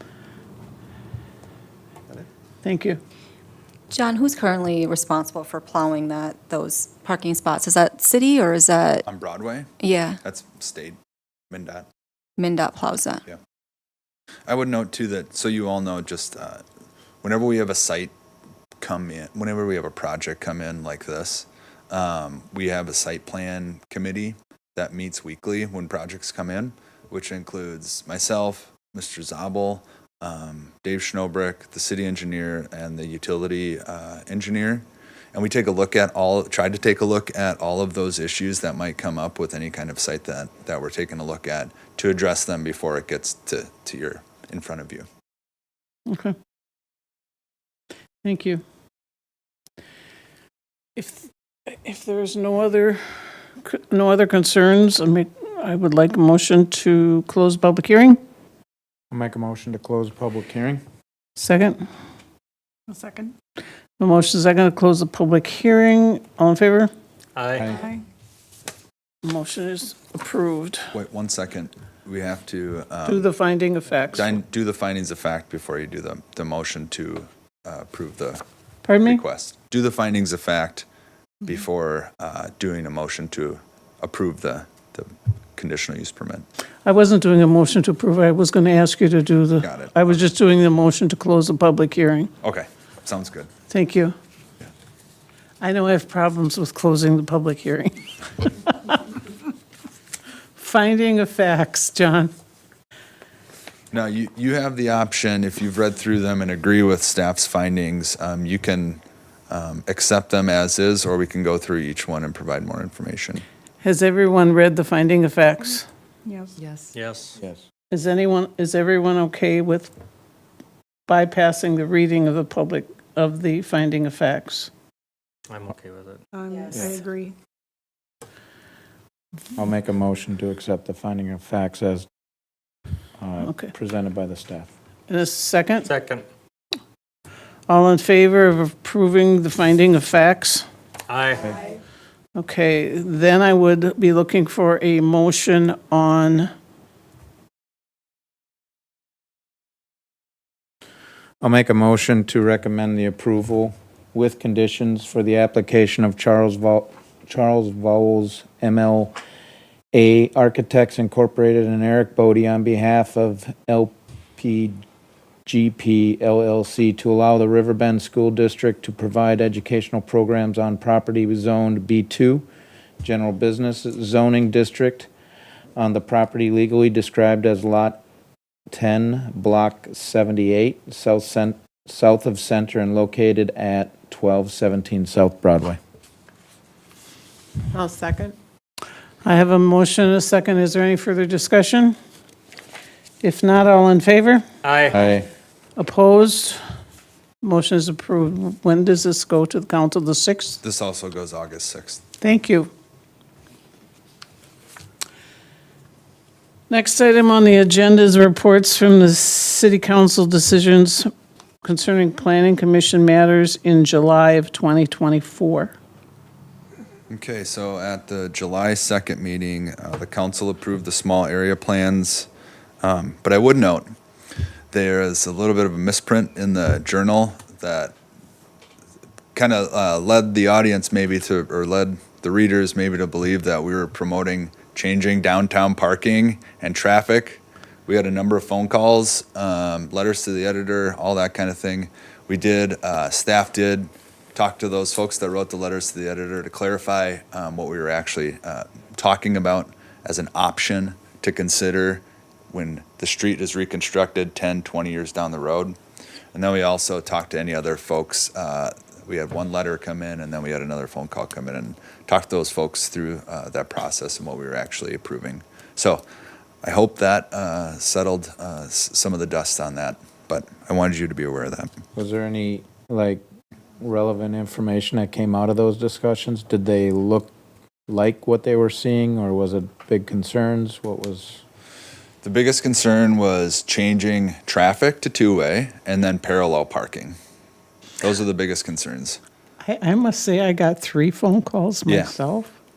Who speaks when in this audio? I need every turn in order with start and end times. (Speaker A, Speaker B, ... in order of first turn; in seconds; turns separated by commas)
Speaker A: 2.6-3.0, Speaker B: 3.9-9.1, Speaker C: 9.1-11.0, Speaker B: 9.8-10.2, Speaker C: 11.5-11.9, Speaker B: 12.4-13.2, Speaker C: 14.5-16.6, Speaker C: 17.2-18.1, Speaker C: 18.8-45.1, Speaker A: 46.1-46.4, Speaker A: 48.2-48.6, Speaker A: 51.0-53.0, Speaker A: 53.6-58.2, Speaker D: 59.1-60.8, Speaker A: 61.4-61.9, Speaker E: 62.9-63.3, Speaker A: 64.0-66.9, Speaker F: 67.4-67.7, Speaker E: 67.7-68.0, Speaker A: 69.2-70.9, Speaker C: 70.9-73.2, Speaker A: 73.1-74.3, Speaker C: 74.2-78.4, Speaker A: 78.8-79.2, Speaker C: 79.0-80.9, Speaker C: 81.4-86.5, Speaker A: 86.8-92.3, Speaker C: 89.6-90.2, Speaker C: 92.4-93.5, Speaker A: 93.7-94.2, Speaker A: 95.6-99.0, Speaker A: 100.5-102.3, Speaker C: 103.9-113.4, Speaker A: 113.8-115.9, Speaker E: 116.3-116.6, Speaker F: 116.9-117.3, Speaker A: 117.9-119.9, Speaker A: 121.1-124.7, Speaker F: 125.5-126.2, Speaker E: 126.3-127.3, Speaker D: 129.6-132.1, Speaker D: 133.2-134.7, Speaker A: 135.1-135.9, Speaker F: 135.8-136.2, Speaker A: 137.7-140.7, Speaker F: 141.1-141.5, Speaker A: 142.3-146.5, Speaker D: 151.4-159.2, Speaker D: 159.9-164.8, Speaker D: 165.5-172.5, Speaker D: 173.0-175.1, Speaker D: 175.8-178.0, Speaker D: 178.7-185.8, Speaker A: 189.2-192.0, Speaker A: 193.2-194.4, Speaker F: 194.6-194.9, Speaker D: 194.9-195.3, Speaker A: 195.8-196.6, Speaker A: 197.4-200.6, Speaker C: 200.6-202.0, Speaker A: 202.2-202.7, Speaker A: 206.7-211.1, Speaker A: 211.6-215.8, Speaker C: 217.1-222.3, Speaker C: 222.8-223.9, Speaker C: 224.7-227.9, Speaker C: 229.3-255.8, Speaker C: 256.3-266.0, Speaker C: 266.6-271.8, Speaker D: 271.9-273.2, Speaker D: 273.8-277.3, Speaker D: 277.9-281.4, Speaker C: 282.2-287.2, Speaker C: 288.0-289.2, Speaker A: 289.6-292.5, Speaker C: 291.9-292.1